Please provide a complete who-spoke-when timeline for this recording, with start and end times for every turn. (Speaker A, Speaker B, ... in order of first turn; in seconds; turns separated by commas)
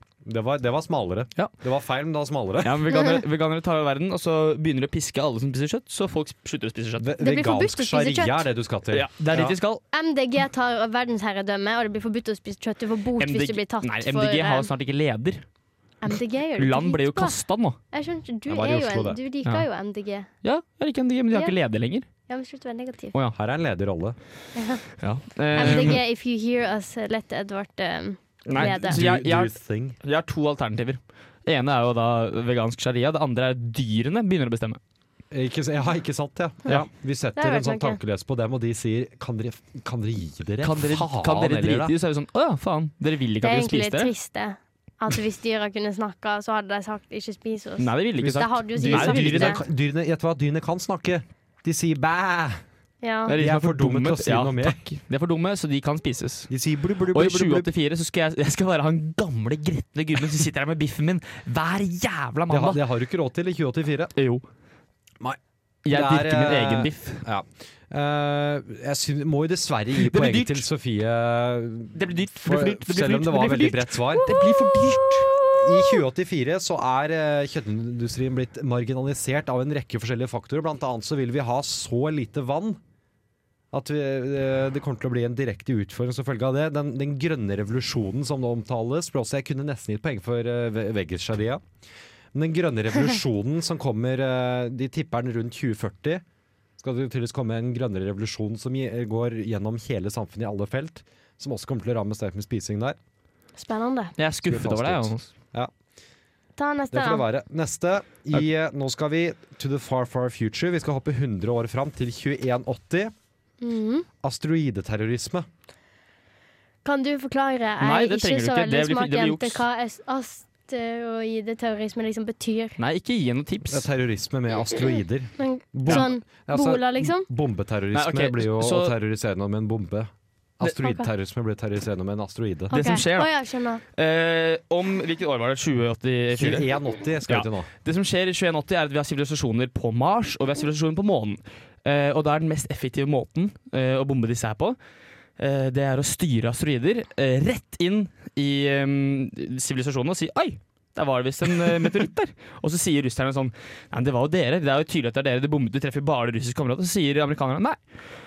Speaker A: 0.2-2.9, Speaker B: 2.6-7.1, Speaker A: 7.0-9.6, Speaker C: 7.2-8.4, Speaker B: 8.9-9.8, Speaker C: 9.9-14.7, Speaker B: 13.2-15.4, Speaker C: 16.0-17.4, Speaker B: 16.6-17.8, Speaker C: 17.9-20.3, Speaker A: 18.5-19.2, Speaker B: 20.4-22.1, Speaker C: 22.3-23.1, Speaker A: 23.3-24.2, Speaker C: 24.6-24.8, Speaker B: 25.0-26.0, Speaker C: 25.5-29.0, Speaker A: 25.6-26.0, Speaker B: 28.5-34.8, Speaker A: 28.6-30.0, Speaker A: 35.3-41.9, Speaker C: 37.4-38.0, Speaker B: 40.6-44.1, Speaker C: 43.4-49.6, Speaker B: 47.8-49.6, Speaker A: 48.2-52.6, Speaker C: 53.0-53.3, Speaker B: 53.3-56.5, Speaker A: 53.3-54.8, Speaker A: 56.5-57.7, Speaker B: 57.1-62.8, Speaker A: 62.5-64.1, Speaker B: 64.2-64.4, Speaker A: 65.2-74.4, Speaker B: 65.8-67.2, Speaker B: 70.0-70.7, Speaker B: 71.9-75.9, Speaker A: 75.3-82.8, Speaker A: 83.7-91.6, Speaker A: 92.3-96.2, Speaker A: 96.8-103.0, Speaker C: 103.6-104.1, Speaker B: 104.2-105.3, Speaker A: 104.4-105.7, Speaker C: 106.6-107.2, Speaker A: 106.9-113.1, Speaker C: 113.6-114.0, Speaker A: 114.2-115.5, Speaker C: 116.8-122.8, Speaker B: 117.8-119.6, Speaker B: 122.8-123.8, Speaker A: 123.7-132.7, Speaker C: 125.4-127.3, Speaker B: 127.9-128.9, Speaker C: 132.7-133.8, Speaker B: 132.7-133.3, Speaker B: 133.8-136.7, Speaker A: 136.3-137.7, Speaker B: 137.3-144.8, Speaker B: 145.4-157.8